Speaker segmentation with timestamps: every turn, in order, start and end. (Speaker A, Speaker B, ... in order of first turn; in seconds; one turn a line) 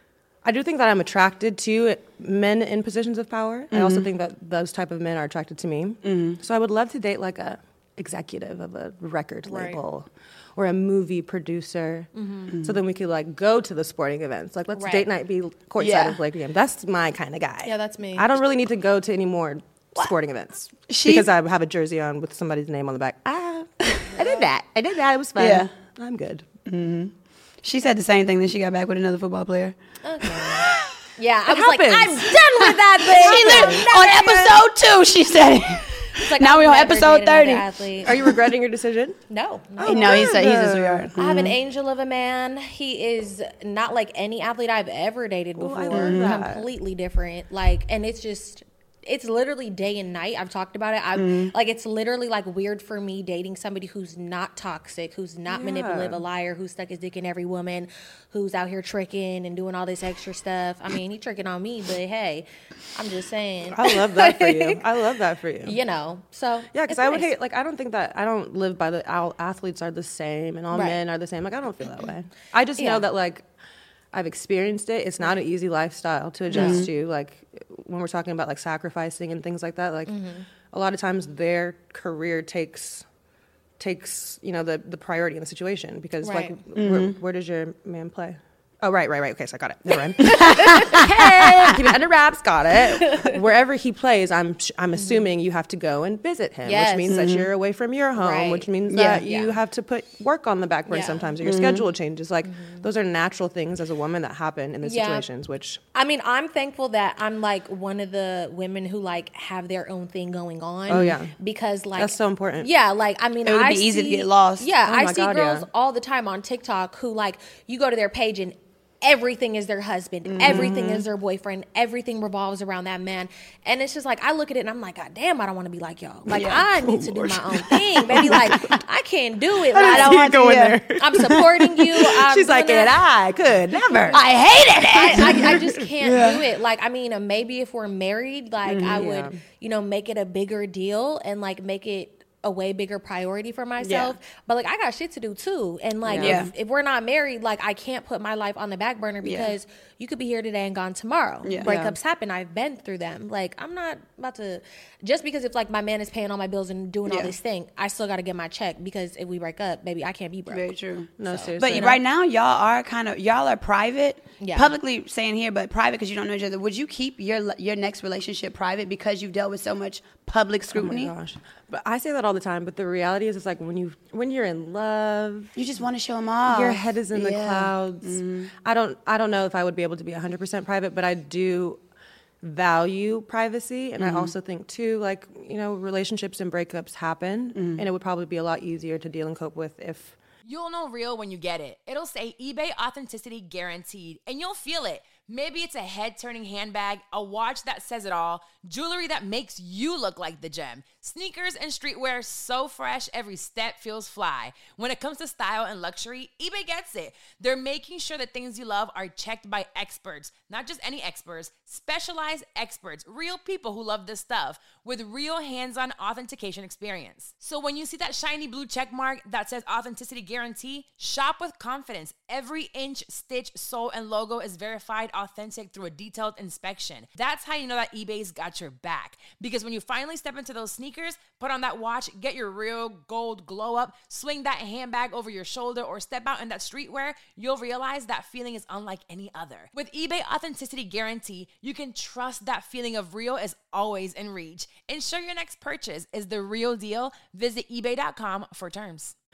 Speaker A: 0.4-26.4
Speaker B: 3.7-4.1
Speaker B: 6.0-6.4
Speaker C: 9.4-9.8
Speaker C: 12.1-12.6
Speaker C: 14.7-15.1
Speaker B: 15.8-16.2
Speaker C: 17.6-18.3
Speaker B: 20.9-21.3
Speaker B: 24.0-24.3
Speaker B: 25.4-25.7
Speaker B: 26.6-29.8
Speaker C: 30.0-34.6
Speaker A: 31.5-32.4
Speaker B: 33.0-38.3
Speaker A: 33.1-33.9
Speaker C: 36.1-38.2
Speaker A: 38.0-39.2
Speaker C: 39.3-40.4
Speaker A: 39.8-41.1
Speaker B: 39.8-41.5
Speaker C: 41.2-64.8
Speaker A: 45.6-46.7
Speaker B: 45.9-46.4
Speaker B: 51.1-51.5
Speaker A: 55.5-56.2
Speaker A: 63.7-65.8
Speaker C: 65.6-67.3
Speaker A: 66.7-73.4
Speaker C: 70.7-71.0
Speaker C: 72.8-73.0
Speaker A: 74.1-80.2
Speaker C: 76.5-76.9
Speaker B: 76.5-76.9
Speaker C: 80.1-80.4
Speaker A: 80.7-83.0
Speaker A: 83.8-105.8
Speaker C: 86.2-86.5
Speaker B: 86.7-87.2
Speaker C: 90.2-91.8
Speaker B: 90.2-91.8
Speaker C: 92.9-93.4
Speaker C: 94.9-95.3
Speaker C: 96.6-97.2
Speaker B: 97.1-97.5
Speaker C: 98.2-98.7
Speaker B: 98.9-99.2
Speaker C: 99.2-99.5
Speaker C: 100.9-101.3
Speaker B: 101.4-101.8
Speaker C: 102.5-102.8
Speaker C: 104.8-105.2
Speaker C: 105.9-133.0
Speaker A: 110.9-111.3
Speaker A: 112.0-112.7
Speaker B: 113.4-114.7
Speaker A: 114.8-115.6
Speaker B: 120.2-120.7
Speaker A: 120.4-121.0
Speaker B: 126.3-126.6
Speaker A: 126.3-128.8
Speaker B: 128.1-128.7
Speaker B: 129.7-130.8
Speaker A: 129.7-134.2
Speaker C: 133.7-134.2
Speaker B: 134.1-136.4
Speaker C: 134.9-160.7
Speaker A: 135.0-135.9
Speaker B: 138.7-139.0
Speaker A: 138.9-139.3
Speaker B: 143.8-144.1
Speaker A: 146.1-146.4
Speaker B: 146.2-146.5
Speaker B: 149.2-149.5
Speaker B: 151.4-151.7
Speaker A: 151.6-151.9
Speaker B: 157.1-157.3
Speaker B: 160.5-171.1
Speaker A: 161.2-162.0
Speaker C: 161.2-162.0
Speaker C: 164.4-164.7
Speaker A: 170.7-175.6
Speaker B: 175.6-178.5
Speaker A: 176.4-181.8
Speaker A: 182.4-190.1
Speaker B: 184.0-184.3
Speaker B: 187.5-187.8
Speaker D: 190.4-249.1